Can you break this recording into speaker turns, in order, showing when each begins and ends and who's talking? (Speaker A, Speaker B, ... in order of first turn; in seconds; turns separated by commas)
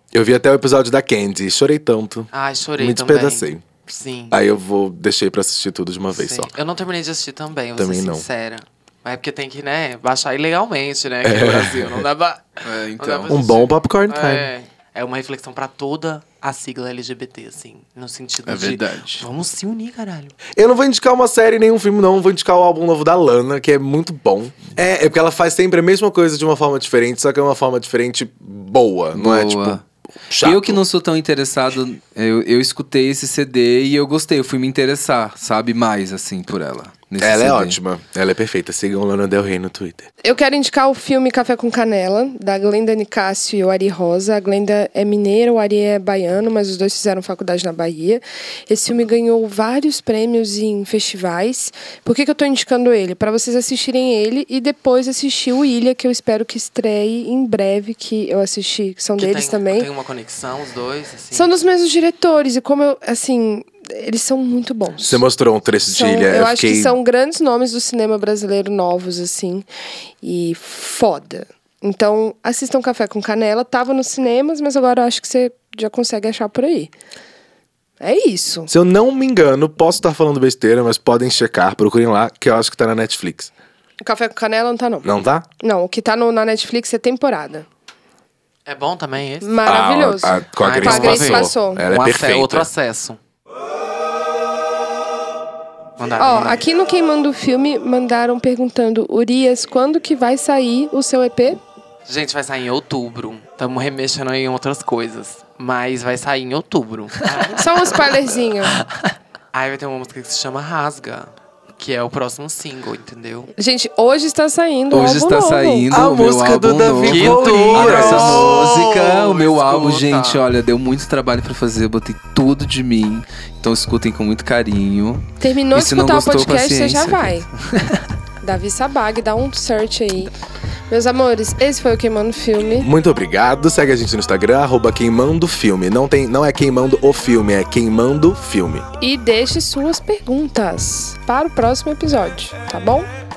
Speaker A: 0.1-3.6, Speaker B: 2.3-4.4, Speaker A: 4.3-6.5, Speaker B: 6.1-20.4, Speaker A: 7.8-8.3, Speaker A: 11.2-12.1, Speaker C: 12.6-13.6, Speaker A: 13.3-14.5, Speaker C: 18.5-19.3, Speaker A: 20.6-30.8, Speaker C: 29.2-29.8, Speaker C: 30.4-37.8, Speaker A: 37.2-40.1, Speaker D: 40.2-59.9, Speaker B: 59.2-61.6, Speaker D: 61.3-65.2, Speaker A: 65.0-67.0, Speaker D: 65.8-69.7, Speaker D: 70.2-76.9, Speaker D: 78.0-78.7, Speaker A: 78.7-83.5, Speaker D: 84.0-85.1, Speaker A: 85.0-85.5, Speaker D: 85.6-87.7, Speaker B: 88.7-89.6, Speaker D: 89.4-91.8, Speaker A: 89.7-92.7, Speaker B: 90.6-93.2, Speaker B: 96.0-96.6, Speaker D: 96.2-101.6, Speaker B: 102.1-108.3, Speaker D: 107.6-108.8, Speaker B: 109.5-113.5, Speaker D: 113.6-115.9, Speaker C: 114.9-128.0, Speaker A: 115.9-118.6, Speaker B: 117.0-120.4, Speaker D: 125.4-127.5, Speaker D: 128.4-130.3, Speaker D: 130.9-132.9, Speaker A: 132.8-138.9, Speaker D: 139.0-143.1